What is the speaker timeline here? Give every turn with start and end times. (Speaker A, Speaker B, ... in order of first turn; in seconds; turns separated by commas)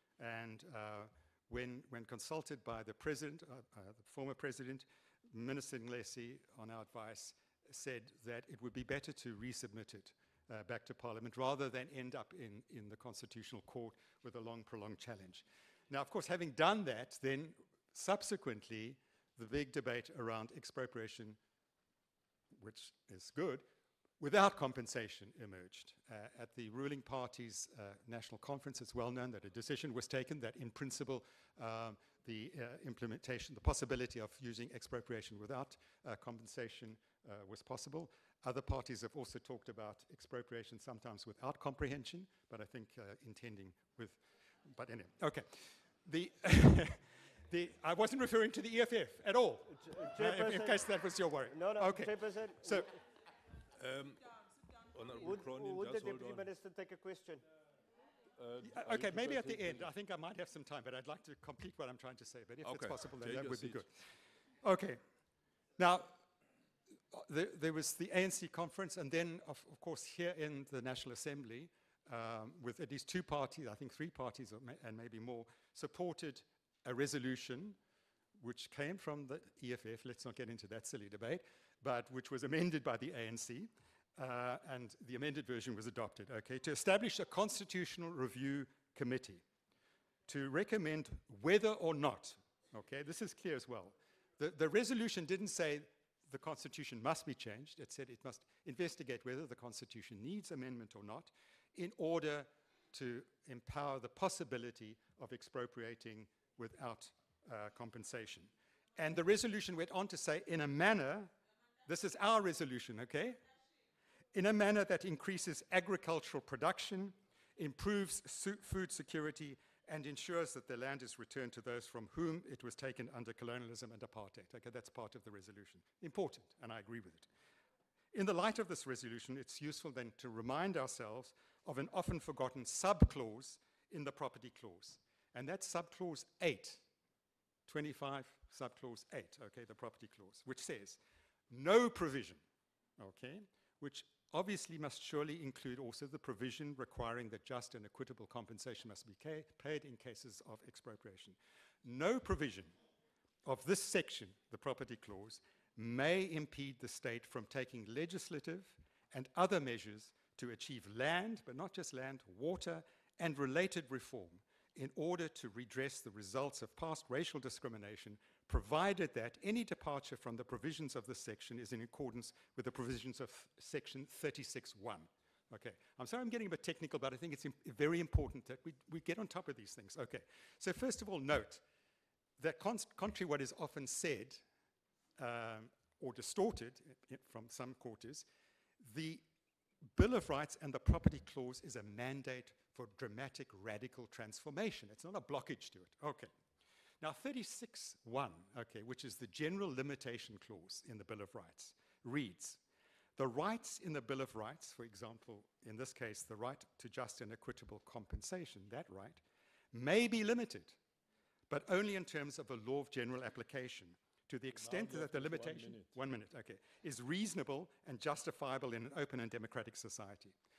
Speaker A: 0.2-21.4, Speaker A: 22.6-23.6, Speaker A: 24.2-52.9, Speaker B: 49.7-50.8, Speaker B: 51.5-52.9, Speaker C: 53.8-54.3, Speaker C: 54.9-56.5, Speaker B: 55.2-57.4, Speaker C: 58.4-59.9, Speaker A: 58.6-63.9, Speaker C: 62.6-63.8, Speaker A: 64.6-65.0, Speaker A: 65.8-66.2, Speaker A: 67.1-77.8, Speaker A: 78.4-89.4, Speaker A: 90.3-111.3, Speaker A: 111.9-113.4, Speaker A: 114.3-127.3, Speaker A: 128.1-136.8, Speaker A: 137.7-142.4, Speaker A: 143.0-152.7, Speaker A: 153.4-181.6, Speaker A: 182.4-184.4, Speaker A: 185.2-188.3, Speaker A: 188.8-189.2, Speaker A: 190.0-196.3, Speaker A: 197.0-202.6, Speaker A: 203.2-209.2, Speaker A: 209.7-210.8, Speaker A: 211.5-220.3, Speaker C: 214.6-215.9